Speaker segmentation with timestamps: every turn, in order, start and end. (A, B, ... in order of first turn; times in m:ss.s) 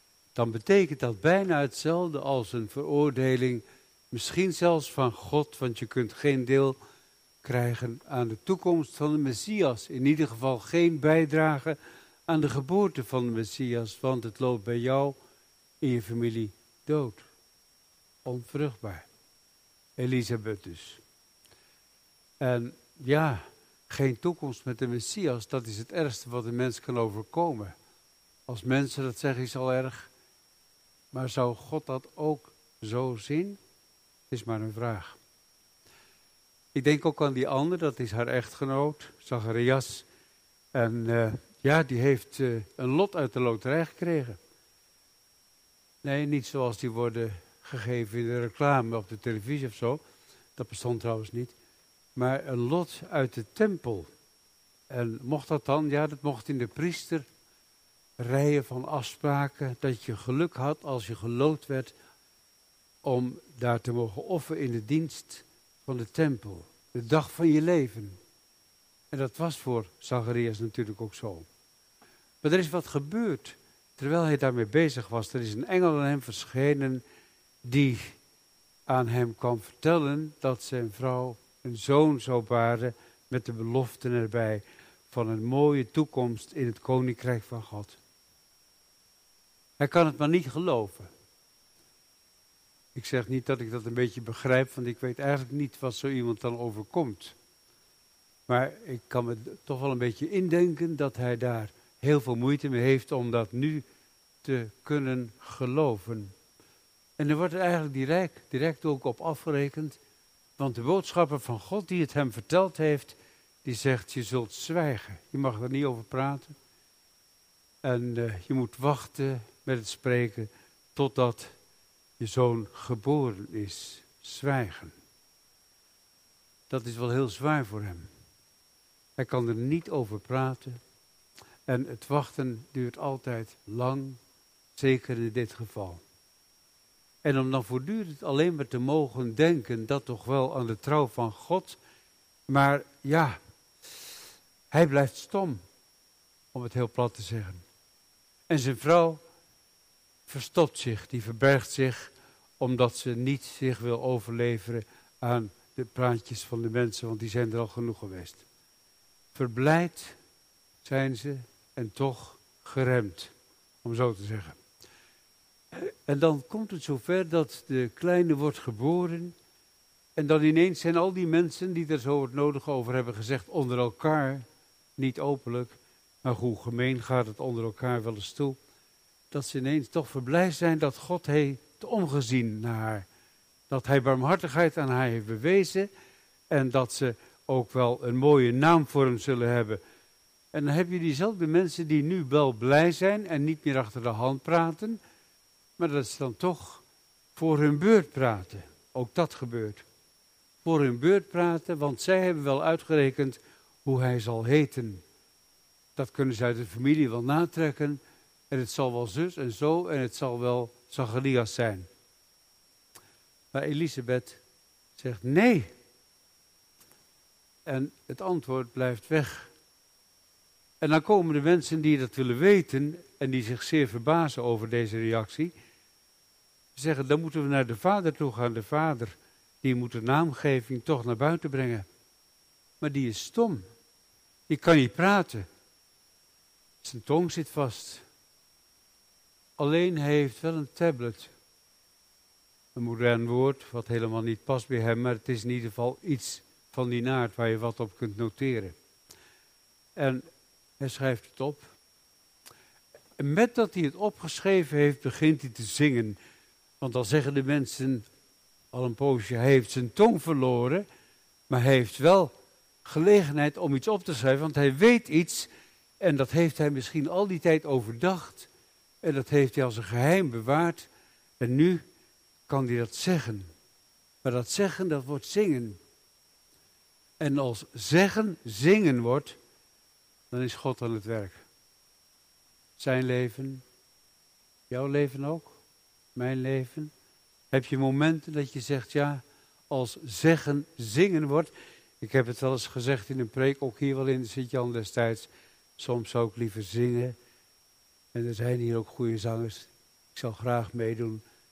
0:00.4-0:06.8 A
0:07.4-0:15.2 A
0:15.8-0:17.3 A
0:18.2-0:19.1 A
0:20.0-0:21.0 A
0:22.4-0:27.8 A
0:28.5-0:30.1 A
0:31.1-0:33.6 A
0:34.3-0:35.2 A
0:36.7-0:40.1 A
0:40.7-0:44.4 A
0:46.0-0:50.0 A
0:50.6-0:51.6 A
0:52.2-0:54.1 A
0:54.9-0:57.3 A
0:58.2-1:01.9 A
1:03.0-1:08.2 A
1:09.1-1:11.5 A
1:12.4-1:17.0 A
1:17.6-1:18.2 A
1:18.9-1:28.0 A
1:29.8-1:31.1 A
1:33.0-1:37.4 A
1:38.5-1:43.8 A
1:44.4-1:46.3 A
1:47.2-1:50.0 A
1:50.6-1:56.6 A
1:57.8-2:01.6 A
2:02.2-2:05.0 A
2:06.7-2:08.1 A
2:09.2-2:10.8 A
2:11.7-2:14.2 A
2:14.8-2:16.0 A
2:17.2-2:21.8 A
2:22.5-2:23.4 A
2:24.7-2:25.6 A
2:26.5-2:27.6 A
2:28.5-2:29.2 A
2:30.3-2:38.4 A
2:39.3-2:40.2 A
2:40.8-2:44.6 A
2:45.7-2:49.4 A
2:50.2-2:54.4 A
2:55.0-2:58.6 A
2:59.3-3:03.1 A
3:03.7-3:05.9 A
3:06.5-3:09.8 A
3:10.5-3:15.0 A
3:15.8-3:16.8 A
3:17.4-3:19.8 A
3:20.6-3:25.0 A
3:26.0-3:31.9 A
3:33.5-3:34.4 A
3:35.0-3:35.7 A
3:37.6-3:39.5 A
3:40.8-3:45.5 A
3:46.8-3:51.9 A
3:52.8-3:53.7 A
3:54.5-3:55.5 A
3:56.8-3:58.1 A
3:59.6-4:01.3 A
4:02.8-4:08.8 A
4:10.0-4:10.3 A
4:10.8-4:11.7 A
4:13.2-4:16.2 A
4:16.8-4:18.0 A
4:18.7-4:20.9 A
4:21.5-4:22.3 A
4:22.8-4:25.5 A
4:26.0-4:28.5 A
4:29.0-4:30.9 A
4:31.4-4:31.8 A
4:32.5-4:33.5 A
4:34.2-4:35.8 A
4:37.2-4:39.4 A
4:40.3-4:41.4 A
4:42.8-4:43.6 A
4:44.7-4:45.6 A
4:46.2-4:46.9 A
4:47.5-4:57.2 A
4:58.1-5:01.2 A